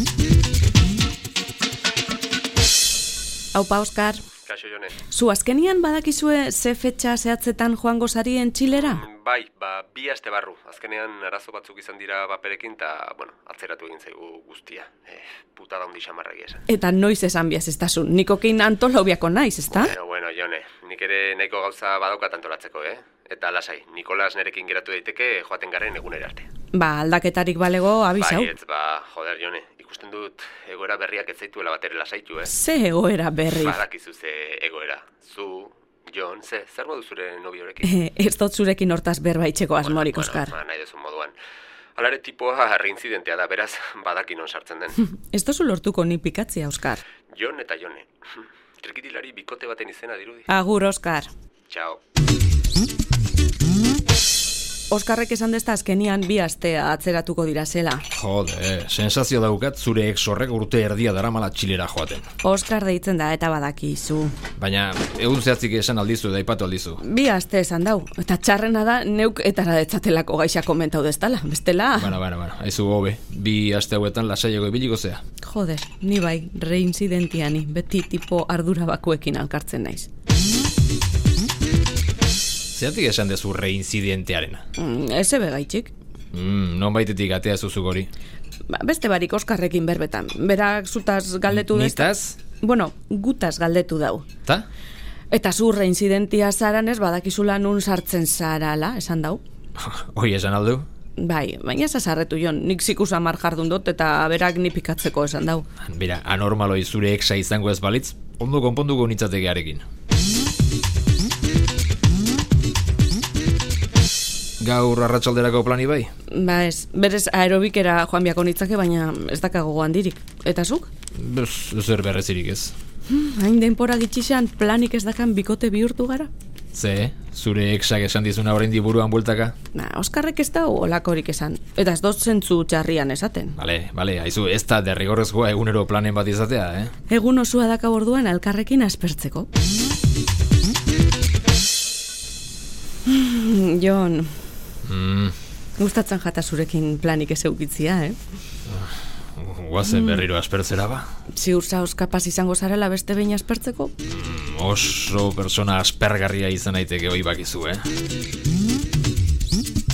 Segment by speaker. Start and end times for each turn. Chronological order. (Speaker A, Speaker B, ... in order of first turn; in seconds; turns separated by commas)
Speaker A: 3.5-4.2, Speaker B: 4.5-4.9, Speaker A: 5.1-9.0, Speaker B: 8.7-16.6, Speaker A: 16.7-19.9, Speaker B: 19.7-26.5, Speaker A: 26.7-28.5, Speaker B: 28.2-32.5, Speaker A: 32.4-33.8, Speaker B: 33.5-38.0, Speaker A: 37.8-40.5, Speaker B: 39.8-41.3, Speaker B: 42.0-45.1, Speaker A: 45.3-47.0, Speaker B: 47.3-50.5, Speaker A: 50.5-51.3, Speaker B: 51.7-52.0, Speaker A: 54.9-58.0, Speaker C: 58.1-62.2, Speaker A: 62.4-64.3, Speaker C: 64.6-67.0, Speaker A: 67.0-72.2, Speaker C: 72.0-75.2, Speaker A: 75.4-80.1, Speaker C: 82.7-84.6, Speaker A: 84.8-85.9, Speaker C: 86.3-88.1, Speaker A: 88.7-94.2, Speaker C: 91.5-92.4, Speaker A: 95.3-99.4, Speaker C: 99.8-100.8, Speaker A: 101.2-105.7, Speaker C: 105.9-109.8, Speaker C: 114.6-116.1, Speaker A: 116.3-120.9, Speaker C: 121.1-122.7, Speaker A: 123.1-126.3, Speaker C: 126.7-129.5, Speaker A: 129.7-133.6, Speaker C: 133.6-136.9, Speaker A: 137.1-139.5, Speaker A: 143.1-144.3, Speaker C: 144.8-145.3, Speaker A: 145.8-148.2, Speaker C: 148.7-151.1, Speaker A: 149.8-150.2, Speaker A: 151.3-153.9, Speaker C: 154.1-157.8